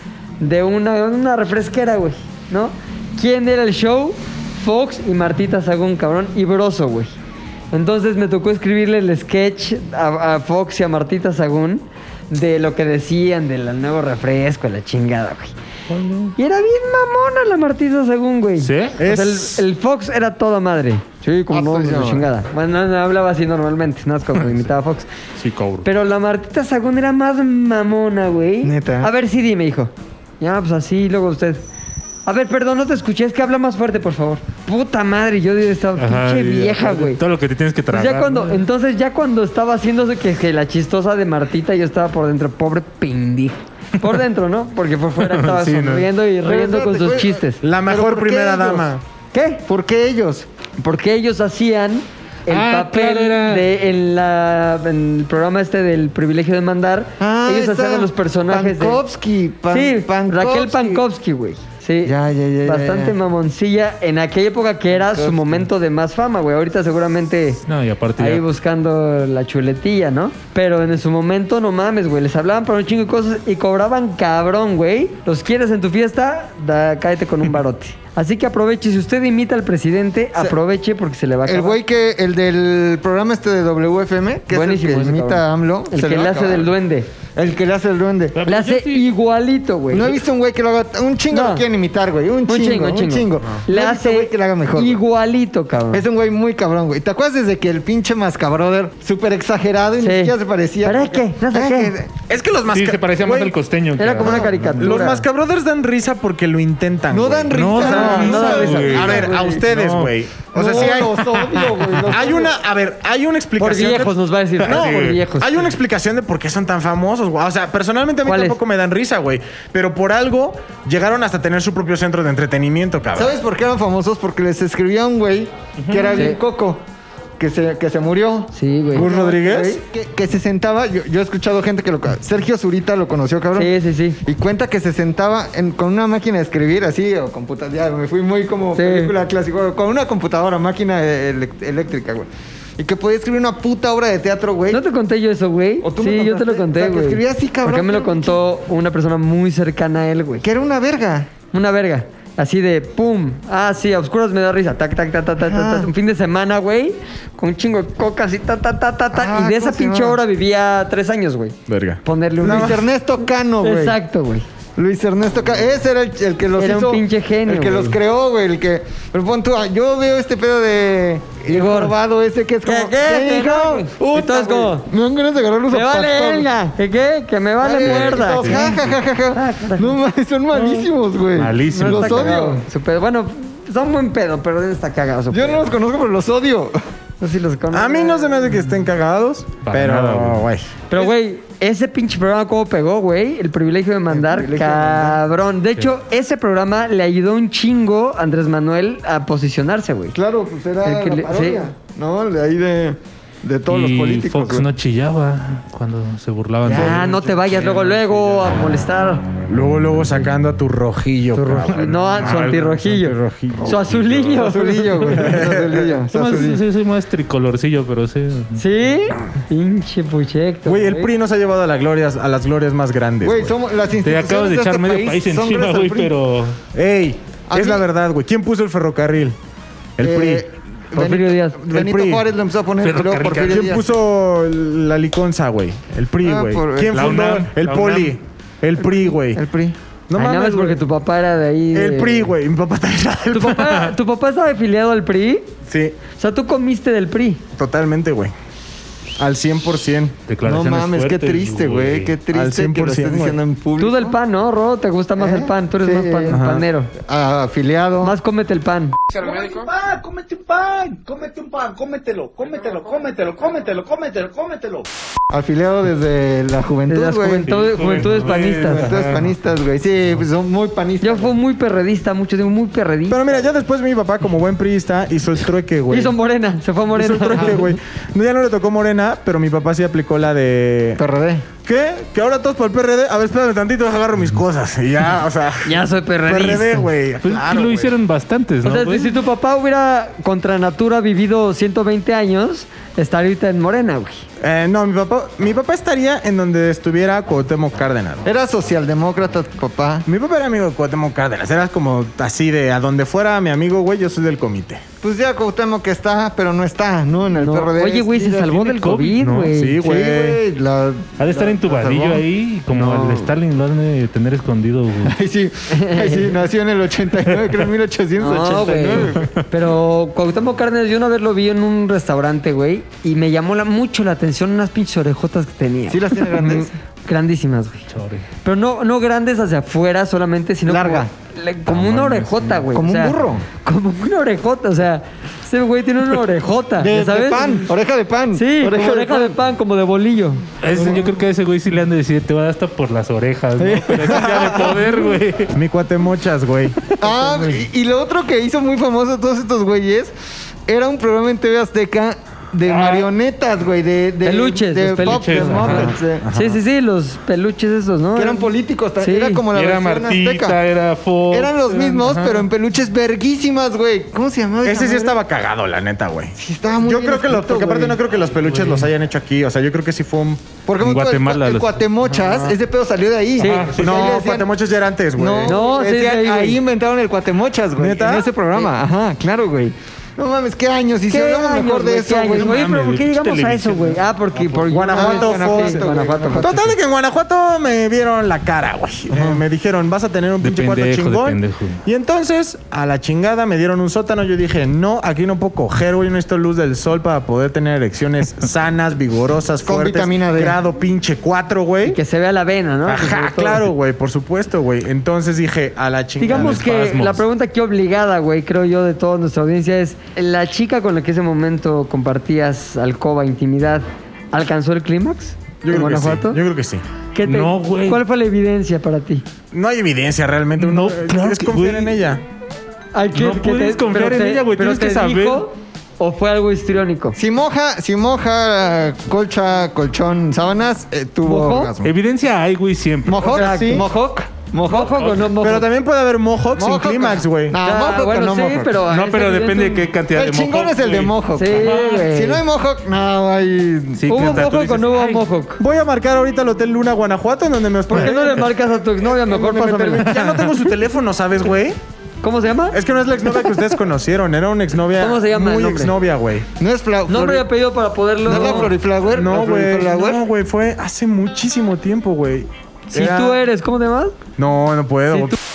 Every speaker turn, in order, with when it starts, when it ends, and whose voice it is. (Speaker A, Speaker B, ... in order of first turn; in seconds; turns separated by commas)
Speaker A: 0.4-7.1, Speaker A: 7.7-15.5, Speaker B: 15.9-16.3, Speaker A: 16.4-25.1, Speaker B: 18.6-19.0, Speaker C: 19.0-19.6, Speaker D: 21.5-22.3, Speaker B: 25.4-25.9, Speaker A: 25.8-31.6, Speaker D: 28.6-29.1, Speaker A: 32.2-37.2, Speaker B: 36.0-38.6, Speaker A: 37.9-47.6, Speaker B: 45.2-46.1, Speaker D: 46.4-48.9, Speaker C: 47.6-49.0, Speaker A: 49.3-49.6, Speaker D: 49.6-50.5, Speaker A: 50.8-59.0, Speaker B: 52.5-53.7, Speaker D: 57.2-61.0, Speaker A: 59.7-67.6, Speaker D: 62.0-63.1, Speaker D: 65.0-65.6, Speaker B: 67.7-68.4, Speaker A: 68.2-81.8, Speaker D: 81.5-86.7, Speaker A: 84.5-87.1, Speaker D: 87.3-88.4, Speaker B: 88.3-89.1, Speaker A: 88.5-90.2, Speaker D: 89.9-95.0, Speaker A: 91.3-91.7, Speaker A: 92.5-96.0, Speaker D: 95.9-102.1, Speaker A: 100.0-102.0, Speaker C: 102.3-103.5, Speaker B: 102.7-105.0, Speaker A: 104.0-105.2, Speaker D: 104.2-104.6, Speaker C: 104.3-123.3, Speaker D: 107.1-109.4, Speaker B: 107.5-110.1, Speaker A: 107.8-109.6, Speaker D: 110.5-112.6, Speaker A: 110.6-111.0, Speaker A: 113.6-115.5, Speaker B: 114.6-115.2, Speaker A: 118.2-118.6, Speaker D: 123.1-126.8, Speaker B: 125.8-126.3, Speaker D: 127.4-133.7, Speaker A: 128.5-129.7, Speaker C: 128.9-129.8, Speaker A: 133.5-134.2, Speaker D: 134.2-144.8, Speaker A: 138.7-139.1, Speaker A: 144.7-150.4, Speaker D: 145.8-148.4, Speaker D: 150.4-151.3, Speaker A: 151.5-162.8, Speaker D: 155.4-155.9, Speaker D: 159.1-160.2, Speaker C: 161.7-162.8, Speaker D: 162.4-164.0, Speaker A: 163.6-164.4, Speaker D: 164.8-176.5, Speaker A: 166.6-168.0, Speaker A: 171.5-171.9, Speaker A: 172.6-174.9, Speaker A: 175.7-178.7, Speaker D: 177.6-182.6, Speaker B: 177.8-178.9, Speaker A: 179.3-179.9, Speaker B: 180.5-182.4, Speaker A: 181.7-185.7, Speaker D: 185.3-186.8, Speaker A: 187.2-188.6, Speaker C: 187.7-190.7, Speaker B: 189.6-190.5, Speaker A: 190.9-200.2, Speaker D: 194.1-195.2, Speaker D: 200.1-204.7, Speaker A: 200.8-201.7, Speaker B: 203.7-208.8, Speaker D: 206.6-207.1, Speaker A: 206.7-209.2, Speaker C: 209.5-212.4, Speaker A: 211.3-215.4, Speaker B: 211.7-214.4, Speaker D: 214.3-216.6, Speaker C: 215.1-215.9, Speaker B: 216.1-218.6, Speaker A: 218.6-221.1, Speaker C: 220.7-223.5, Speaker D: 223.2-226.1, Speaker B: 224.0-226.6, Speaker C: 226.7-229.3, Speaker D: 227.5-227.8, Speaker C: 230.0-232.2, Speaker D: 230.0-233.8, Speaker A: 231.0-231.6, Speaker B: 232.8-233.8, Speaker C: 233.4-239.4, Speaker D: 236.2-237.1, Speaker B: 236.9-238.2, Speaker D: 239.1-239.8, Speaker C: 240.1-240.8, Speaker A: 240.1-242.3, Speaker C: 241.7-243.9, Speaker A: 243.3-245.5, Speaker C: 245.7-245.9, Speaker A: 246.2-247.4, Speaker C: 247.6-248.3, Speaker C: 249.2-250.1, Speaker B: 250.3-252.2, Speaker D: 250.4-254.2, Speaker C: 252.3-253.4, Speaker A: 253.8-256.9, Speaker D: 255.2-256.4, Speaker C: 256.3-256.6, Speaker D: 256.9-258.1, Speaker A: 258.0-259.0, Speaker E: 259.1-264.9, Speaker D: 265.3-267.5, Speaker A: 266.9-268.9, Speaker B: 267.4-269.3, Speaker D: 268.6-271.3, Speaker A: 271.0-273.4, Speaker C: 273.1-276.1, Speaker A: 275.9-277.7, Speaker C: 276.9-281.0, Speaker D: 281.0-281.4, Speaker C: 281.6-287.9, Speaker A: 285.6-286.9, Speaker B: 287.2-289.1, Speaker A: 288.6-294.2, Speaker C: 294.4-298.3, Speaker D: 298.2-300.1, Speaker C: 300.1-304.8, Speaker D: 305.0-308.4, Speaker A: 307.4-309.8, Speaker B: 308.2-309.6, Speaker C: 309.5-310.4, Speaker D: 309.8-312.2, Speaker B: 311.2-315.2, Speaker A: 312.7-313.3, Speaker D: 315.0-319.3, Speaker A: 315.7-316.4, Speaker A: 318.2-327.9, Speaker B: 319.1-319.4, Speaker D: 325.9-326.7, Speaker B: 327.9-328.2, Speaker A: 328.4-337.7, Speaker D: 330.7-331.1, Speaker B: 331.7-332.6, Speaker D: 332.7-333.4, Speaker D: 336.8-339.4, Speaker A: 338.3-340.4, Speaker B: 340.6-345.5, Speaker D: 340.7-341.0, Speaker A: 343.6-344.5, Speaker D: 344.2-344.6, Speaker C: 344.2-344.7, Speaker C: 345.5-346.8, Speaker D: 347.0-350.1, Speaker A: 347.1-347.6, Speaker D: 350.7-356.2, Speaker B: 352.6-353.1, Speaker A: 354.2-359.4, Speaker B: 355.0-355.9, Speaker C: 356.2-356.6, Speaker D: 358.1-360.6, Speaker B: 359.5-362.4, Speaker D: 361.3-365.2, Speaker C: 364.6-370.5, Speaker D: 366.4-368.0, Speaker B: 368.3-368.9, Speaker D: 370.6-374.5, Speaker B: 370.8-371.8, Speaker C: 372.1-372.6, Speaker A: 373.4-373.7, Speaker B: 373.4-374.2, Speaker C: 373.8-375.6, Speaker D: 375.1-382.6, Speaker A: 375.4-376.6, Speaker C: 377.8-378.3, Speaker A: 381.1-386.7, Speaker B: 382.3-384.6, Speaker C: 384.7-402.0, Speaker D: 384.8-386.7, Speaker D: 389.1-389.4, Speaker B: 390.4-391.8, Speaker D: 399.6-400.6, Speaker A: 401.8-403.7, Speaker C: 402.9-406.7, Speaker A: 406.2-416.4, Speaker B: 406.2-407.2, Speaker C: 415.6-416.8, Speaker A: 417.1-419.2, Speaker B: 417.2-418.0, Speaker C: 419.5-422.2, Speaker B: 420.6-422.0, Speaker A: 422.9-427.2, Speaker B: 423.1-425.4, Speaker D: 427.1-431.9, Speaker A: 431.2-431.7, Speaker B: 431.8-433.4, Speaker D: 433.0-435.0, Speaker C: 433.1-433.9, Speaker A: 433.2-433.9, Speaker A: 434.6-435.7, Speaker B: 434.9-435.3, Speaker C: 435.4-437.6, Speaker D: 436.5-438.8, Speaker A: 437.6-439.9, Speaker B: 438.9-442.1, Speaker D: 440.1-444.5, Speaker A: 441.4-442.4, Speaker B: 444.0-445.2, Speaker A: 444.1-445.6, Speaker C: 445.6-448.5, Speaker A: 447.9-450.3, Speaker C: 449.1-451.8, Speaker A: 452.2-452.8, Speaker C: 452.7-456.5, Speaker A: 455.0-455.9, Speaker D: 456.6-457.5, Speaker A: 457.1-458.7, Speaker D: 458.2-460.2, Speaker C: 458.3-463.4, Speaker A: 462.9-464.1, Speaker C: 464.4-465.4